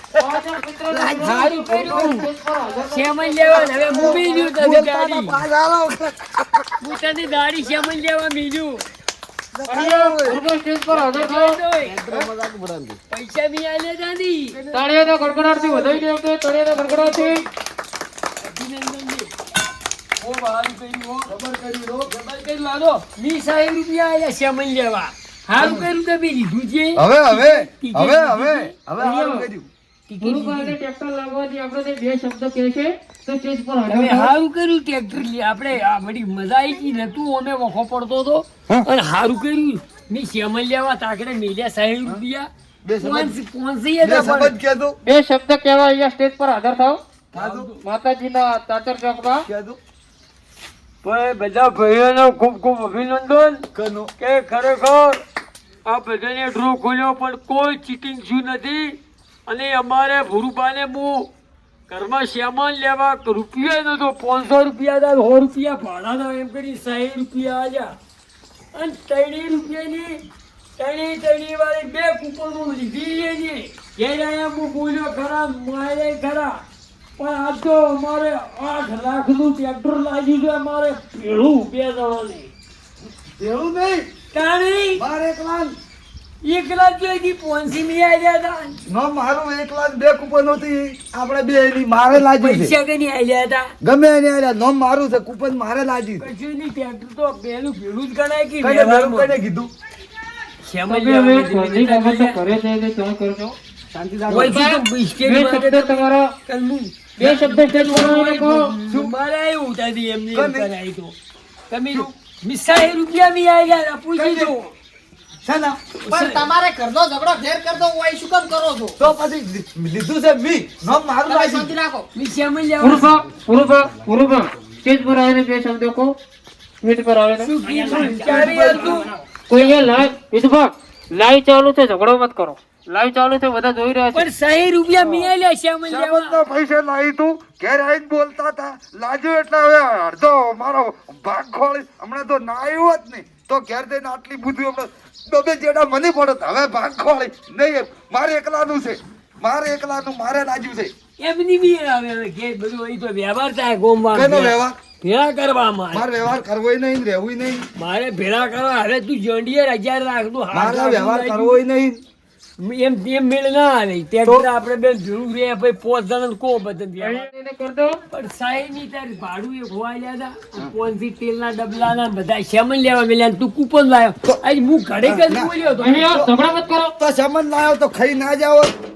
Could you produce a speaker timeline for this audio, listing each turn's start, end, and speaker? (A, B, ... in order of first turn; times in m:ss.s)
0:00.1-0:04.4 A
0:00.9-0:02.3 B
0:01.1-0:02.2 C
0:02.9-0:05.4 C
0:03.6-0:06.6 B
0:06.8-0:08.9 C
0:09.5-0:10.4 B
0:09.7-0:11.6 A
0:10.9-0:12.0 C
0:11.9-0:13.0 B
0:13.1-0:14.6 C
0:14.5-0:16.0 B
0:14.7-0:17.4 A
0:16.8-0:17.5 C
0:18.4-0:19.3 C
0:20.2-0:21.3 C
0:21.3-0:22.1 B
0:22.1-0:28.8 C
0:25.5-0:25.8 A
0:25.6-0:25.9 B
0:27.0-0:29.7 B
0:29.0-0:29.5 A
0:30.1-0:30.8 C
0:30.2-0:34.3 A
0:33.9-0:42.5 C
0:42.8-0:43.4 B
0:43.0-0:44.5 C
0:44.0-0:45.0 B
0:45.0-0:47.0 A
0:47.3-0:47.7 B
0:47.4-0:47.8 C
0:47.8-0:49.5 A
0:49.4-0:49.8 B
0:51.0-0:53.7 C
0:53.7-0:54.1 B
0:54.2-0:55.2 C
0:55.9-1:01.3 C
1:01.9-1:08.0 C
1:08.7-1:10.2 C
1:10.8-1:16.6 C
1:17.2-1:22.5 C
1:23.1-1:24.1 B
1:24.3-1:25.0 C
1:25.0-1:25.8 B
1:26.4-1:28.8 C
1:28.9-1:32.7 B
1:32.1-1:33.7 C
1:33.8-1:36.2 B
1:36.2-1:39.3 C
1:38.6-1:39.7 B
1:40.6-1:42.4 C
1:40.9-1:43.6 A
1:43.9-1:44.6 B
1:44.3-1:51.1 C
1:44.4-1:46.2 A
1:47.2-1:48.6 A
1:48.9-1:49.1 B
1:50.3-1:50.7 B
1:51.7-1:54.7 C
1:54.1-1:54.5 B
1:55.4-1:55.8 B
1:56.0-1:56.4 C
1:56.1-1:59.0 D
1:59.0-2:01.7 B
2:01.2-2:02.0 D
2:02.1-2:03.1 C
2:02.8-2:06.1 A
2:06.8-2:07.5 A
2:07.4-2:09.1 C
2:07.7-2:08.1 D
2:07.9-2:09.1 B
2:09.5-2:14.3 A
2:14.1-2:16.4 C
2:15.0-2:15.3 A
2:15.9-2:30.9 B
2:31.2-2:36.1 C
2:34.1-2:34.8 B
2:35.9-2:37.7 B
2:37.8-2:41.6 C
2:40.5-2:42.0 B
2:42.6-2:47.3 C
2:47.0-2:48.0 A
2:48.1-2:56.2 C
2:55.0-2:56.3 B
2:55.8-2:56.9 A
2:57.0-2:58.7 B